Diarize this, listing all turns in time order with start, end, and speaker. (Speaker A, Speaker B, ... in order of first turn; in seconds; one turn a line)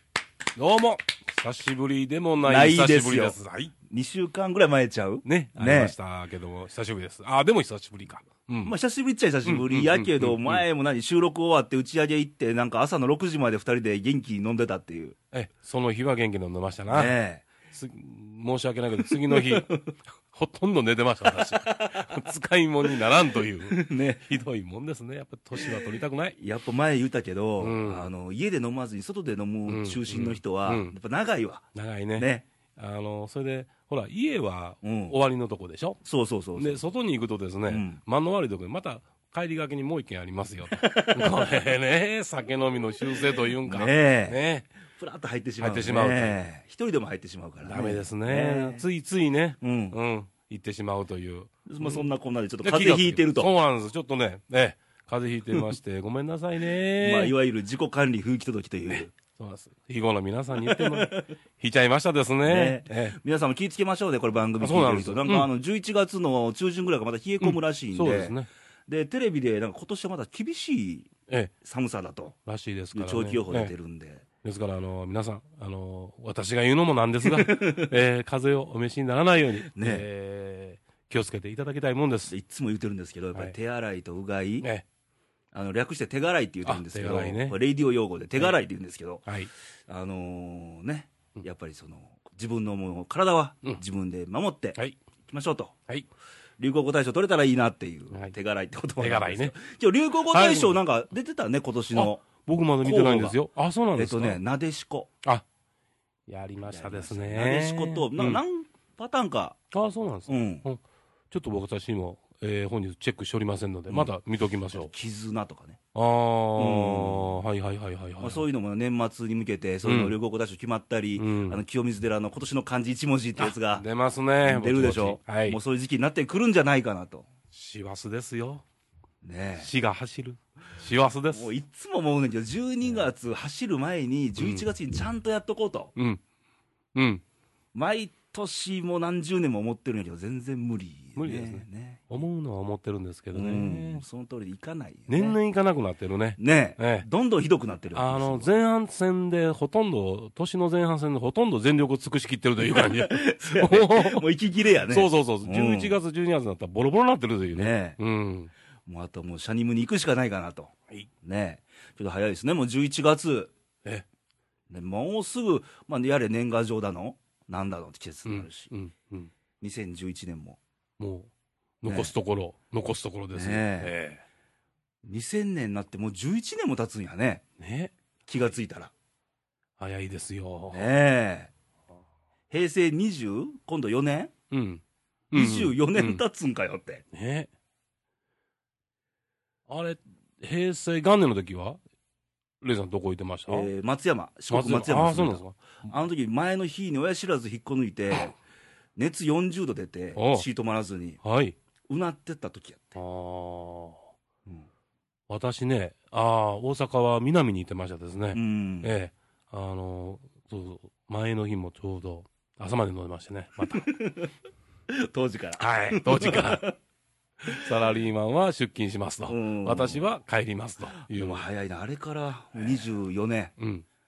Speaker A: 0.6-3.7
Speaker B: 2.4-3.4
Speaker B: 3.9-5.9
Speaker A: 5.2-8.7
Speaker B: 8.6-15.2
Speaker A: 9.4-10.6
Speaker A: 15.3-17.1
Speaker B: 16.9-17.5
Speaker A: 17.7-19.7
Speaker B: 19.1-19.9
Speaker A: 20.3-26.4
Speaker B: 21.3-22.2
Speaker B: 23.6-24.3
Speaker B: 25.6-32.5
Speaker A: 27.6-28.1
Speaker A: 29.7-30.9
Speaker A: 31.7-36.0
Speaker B: 34.8-35.2
Speaker B: 36.0-36.8
Speaker A: 36.5-44.7
Speaker B: 37.7-38.0
Speaker B: 40.7-41.5
Speaker B: 43.2-44.4
Speaker B: 44.9-48.9
Speaker A: 45.6-46.4
Speaker A: 47.6-52.1
Speaker B: 49.6-50.0
Speaker B: 51.7-53.5
Speaker A: 52.6-57.3
Speaker B: 56.9-59.1
Speaker A: 58.9-63.2
Speaker B: 60.5-61.3
Speaker B: 62.4-68.4
Speaker A: 64.6-65.5
Speaker A: 67.4-68.5
Speaker B: 68.9-71.1
Speaker B: 71.6-72.3
Speaker A: 72.5-73.7
Speaker B: 72.9-74.2
Speaker A: 74.4-82.3
Speaker B: 77.2-77.9
Speaker B: 79.7-80.1
Speaker B: 82.3-84.7
Speaker B: 85.5-89.3
Speaker A: 86.6-87.6
Speaker B: 89.9-95.7
Speaker B: 96.6-102.2
Speaker A: 99.0-99.5
Speaker A: 100.3-100.8
Speaker A: 101.9-104.4
Speaker B: 102.8-103.4
Speaker B: 104.0-105.1
Speaker A: 106.3-108.4
Speaker B: 106.7-109.6
Speaker A: 109.7-114.9
Speaker B: 110.3-110.6
Speaker B: 114.7-115.8
Speaker A: 115.9-118.4
Speaker B: 116.6-117.4
Speaker B: 118.2-123.8
Speaker A: 119.8-120.1
Speaker A: 121.2-121.6
Speaker A: 123.4-125.6
Speaker B: 124.4-127.3
Speaker A: 127.5-128.6
Speaker B: 129.2-129.7
Speaker A: 129.6-131.5
Speaker B: 131.3-135.9
Speaker A: 134.4-134.7
Speaker A: 135.9-136.2
Speaker A: 136.9-137.2
Speaker B: 137.7-142.0
Speaker A: 141.2-144.0
Speaker B: 143.3-145.4
Speaker A: 145.1-147.1
Speaker B: 146.4-148.5
Speaker A: 147.9-154.2
Speaker B: 152.7-156.0
Speaker A: 154.9-158.5
Speaker B: 157.5-158.0
Speaker B: 158.8-163.5
Speaker B: 164.7-168.7
Speaker A: 168.2-169.3
Speaker B: 169.6-170.6
Speaker A: 171.0-171.3
Speaker A: 171.8-174.2
Speaker B: 171.8-172.1
Speaker B: 173.3-173.9
Speaker B: 175.1-177.4
Speaker A: 177.6-177.9
Speaker B: 178.2-178.9
Speaker A: 179.8-180.9
Speaker B: 180.7-181.5
Speaker B: 182.5-184.3
Speaker A: 184.5-186.2
Speaker B: 185.3-187.0
Speaker A: 187.1-187.5
Speaker A: 189.7-191.8
Speaker A: 192.6-193.7
Speaker B: 193.5-198.3
Speaker A: 194.5-195.6
Speaker B: 198.9-201.2
Speaker A: 200.1-200.4
Speaker A: 201.2-201.6
Speaker B: 201.9-203.0
Speaker A: 202.9-204.1
Speaker A: 205.3-213.8
Speaker B: 208.3-208.9
Speaker B: 213.7-214.3
Speaker B: 214.9-216.8
Speaker A: 215.6-216.7
Speaker A: 217.6-221.4
Speaker B: 219.3-220.0
Speaker B: 220.9-223.5
Speaker A: 223.6-223.8